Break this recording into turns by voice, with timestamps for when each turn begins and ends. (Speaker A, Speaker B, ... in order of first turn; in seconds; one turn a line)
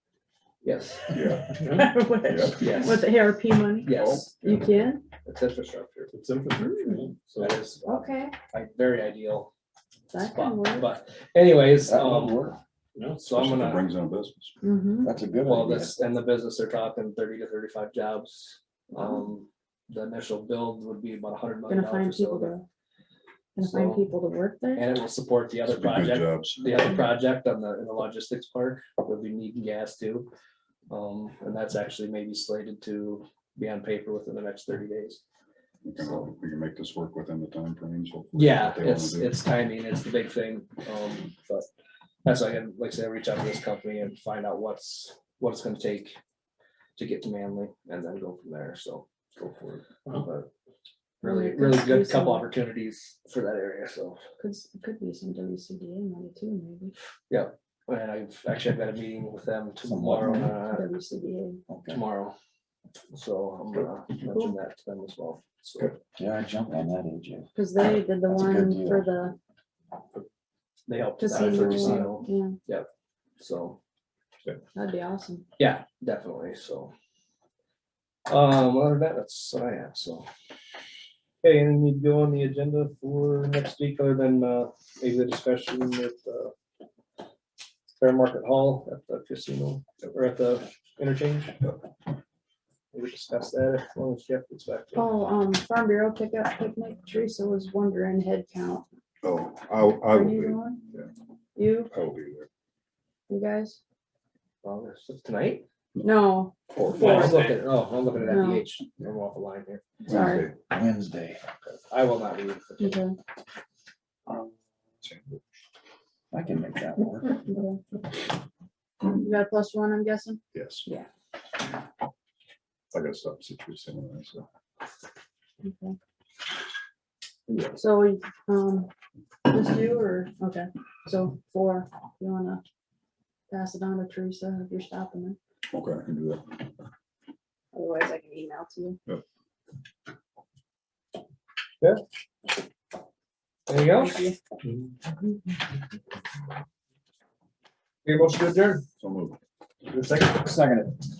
Speaker A: 0.6-1.1
Speaker B: 1.1-1.6
Speaker C: 1.6-2.0
Speaker D: 1.6-5.0
Speaker B: 2.2-2.7
Speaker A: 2.6-3.1
Speaker A: 3.8-4.7
Speaker B: 3.8-4.9
Speaker A: 5.2-6.1
Speaker C: 6.1-7.6
Speaker D: 6.6-6.9
Speaker A: 7.4-9.5
Speaker D: 7.8-8.3
Speaker D: 10.1-10.8
Speaker A: 10.2-12.5
Speaker E: 11.8-12.6
Speaker C: 12.9-13.3
Speaker A: 13.2-13.9
Speaker B: 13.3-14.5
Speaker D: 14.6-15.1
Speaker E: 15.0-15.9
Speaker A: 15.4-22.5
Speaker D: 21.7-22.6
Speaker D: 23.6-24.9
Speaker A: 23.6-24.1
Speaker A: 24.8-30.3
Speaker B: 25.7-26.9
Speaker A: 30.9-35.2
Speaker B: 35.8-39.3
Speaker A: 36.0-36.3
Speaker A: 38.3-41.6
Speaker A: 42.2-46.2
Speaker A: 47.0-50.5
Speaker D: 51.2-52.5
Speaker A: 51.2-54.2
Speaker D: 54.4-56.9
Speaker A: 57.3-60.9
Speaker E: 59.8-60.5
Speaker D: 60.5-61.6
Speaker E: 61.7-62.0
Speaker A: 61.9-62.3
Speaker A: 63.1-65.9
Speaker E: 66.2-69.2
Speaker D: 67.5-69.3
Speaker A: 70.9-72.9
Speaker D: 71.2-72.5
Speaker A: 73.4-73.8
Speaker D: 74.7-75.5
Speaker A: 75.6-76.9
Speaker A: 78.3-80.3
Speaker A: 81.4-86.5
Speaker A: 88.0-91.6
Speaker A: 92.9-95.1
Speaker D: 94.9-98.8
Speaker B: 99.2-101.0
Speaker D: 100.1-100.8
Speaker D: 101.5-101.9
Speaker B: 101.9-102.5
Speaker D: 103.3-103.8
Speaker A: 104.6-105.6
Speaker D: 106.0-107.4
Speaker B: 106.7-107.5
Speaker A: 106.9-109.8
Speaker D: 108.2-108.6
Speaker B: 110.0-110.5
Speaker D: 110.1-110.5
Speaker E: 110.1-111.4
Speaker A: 111.6-113.0
Speaker D: 112.8-113.2
Speaker B: 115.0-115.4
Speaker E: 116.3-117.4
Speaker D: 117.3-117.8
Speaker D: 119.0-121.1
Speaker B: 120.5-120.8
Speaker B: 122.9-124.5
Speaker D: 125.6-126.0
Speaker D: 127.8-128.9
Speaker D: 129.5-132.6
Speaker D: 133.5-135.4
Speaker B: 135.7-136.4
Speaker D: 137.7-139.0
Speaker A: 143.7-144.2
Speaker D: 143.9-144.3
Speaker A: 148.0-148.8
Speaker B: 149.0-149.4
Speaker A: 149.9-150.4
Speaker E: 150.3-151.0